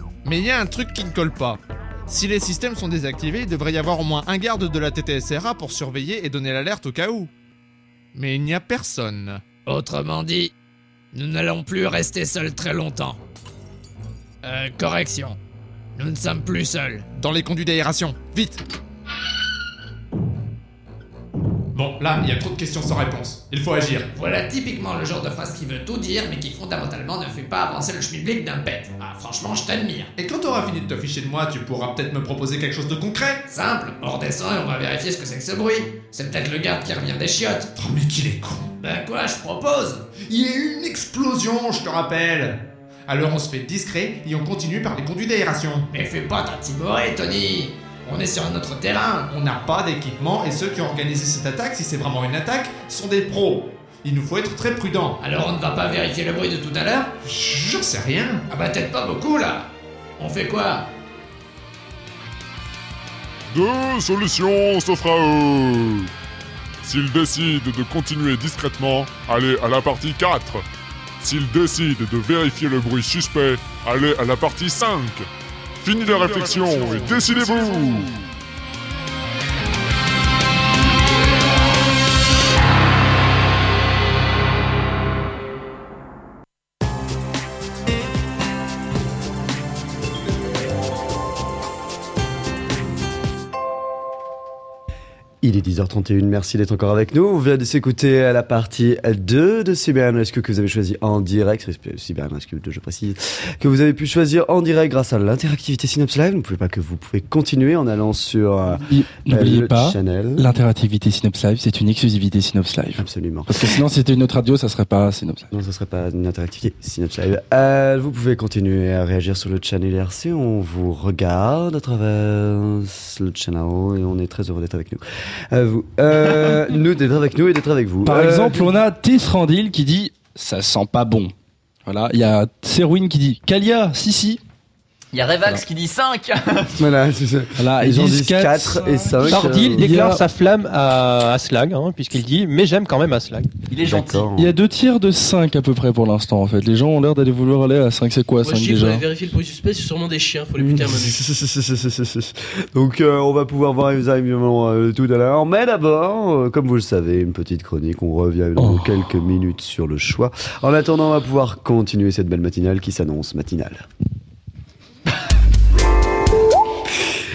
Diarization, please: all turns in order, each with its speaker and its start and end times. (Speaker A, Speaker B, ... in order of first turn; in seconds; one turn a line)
Speaker A: 0.2-7.3
Speaker A: 8.2-9.4
Speaker B: 9.7-10.5
Speaker B: 11.1-13.2
Speaker B: 14.4-15.4
Speaker B: 16.0-17.1
Speaker A: 17.1-18.6
Speaker A: 21.7-24.1
Speaker B: 24.1-30.1
Speaker A: 30.2-33.4
Speaker B: 33.5-37.7
Speaker A: 37.8-38.7
Speaker B: 38.8-40.1
Speaker A: 40.2-45.9
Speaker B: 45.9-49.3
Speaker A: 49.3-55.2
Speaker B: 55.2-57.1
Speaker A: 57.2-58.5
Speaker B: 58.5-60.9
Speaker C: 63.5-66.1
Speaker C: 66.8-70.6
Speaker C: 71.2-75.3
Speaker C: 75.8-78.1
Speaker D: 95.4-110.5
Speaker E: 108.8-115.5
Speaker D: 113.0-113.8
Speaker D: 115.5-128.8
Speaker E: 128.1-131.3
Speaker E: 131.9-134.4
Speaker F: 135.1-136.8
Speaker D: 136.8-139.9
Speaker E: 137.6-140.2
Speaker G: 139.2-143.5
Speaker F: 143.7-144.3
Speaker D: 143.8-144.6
Speaker E: 144.4-149.0
Speaker H: 148.4-151.2
Speaker D: 150.6-163.8
Speaker E: 158.6-158.9